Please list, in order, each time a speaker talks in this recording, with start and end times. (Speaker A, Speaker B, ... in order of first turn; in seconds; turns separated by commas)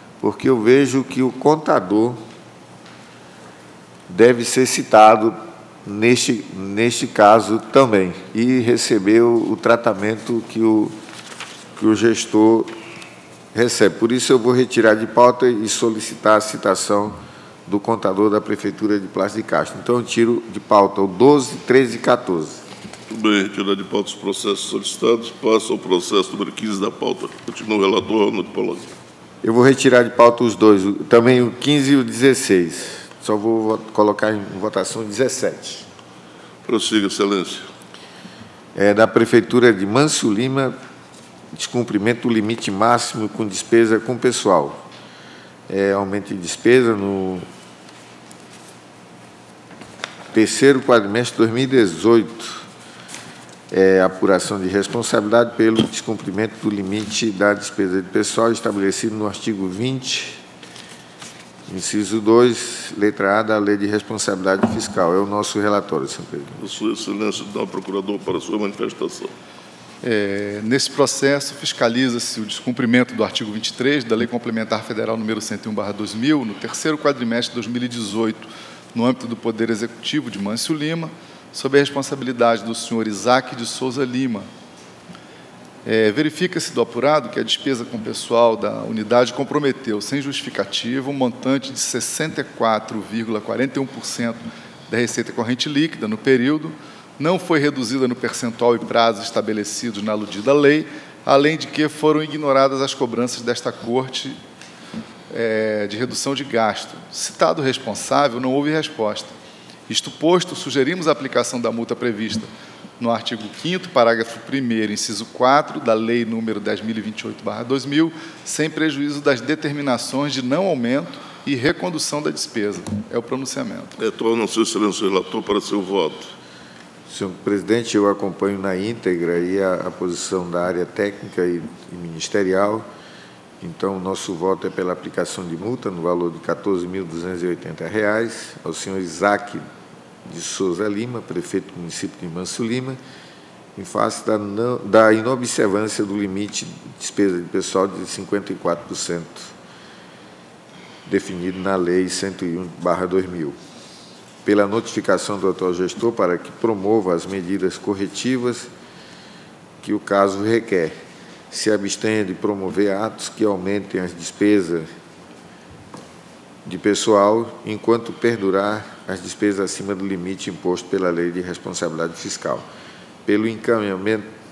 Speaker A: 0.2-2.2, Speaker A: 4.1-10.9, Speaker A: 11.8-12.7, Speaker A: 13.5-22.6, Speaker B: 23.1-28.9, Speaker A: 29.4-35.9, Speaker B: 36.6-37.7, Speaker A: 38.7-40.8, Speaker A: 41.5-44.8, Speaker A: 45.7-47.5, Speaker A: 50.3-52.6, Speaker A: 53.7-60.4, Speaker A: 61.7-66.6, Speaker B: 66.6-69.3, Speaker C: 70.0-84.5, Speaker C: 85.8-104.4, Speaker C: 105.3-109.3, Speaker C: 109.9-123.9, Speaker B: 124.0-126.3, Speaker A: 127.1-132.8, Speaker A: 133.6-139.6, Speaker A: 140.2-143.0, Speaker A: 143.7-149.5, Speaker A: 151.0-153.6, Speaker A: 154.4-158.7, Speaker A: 159.8-160.9, Speaker A: 161.5-164.9, Speaker A: 166.6-172.6, Speaker A: 173.2-174.3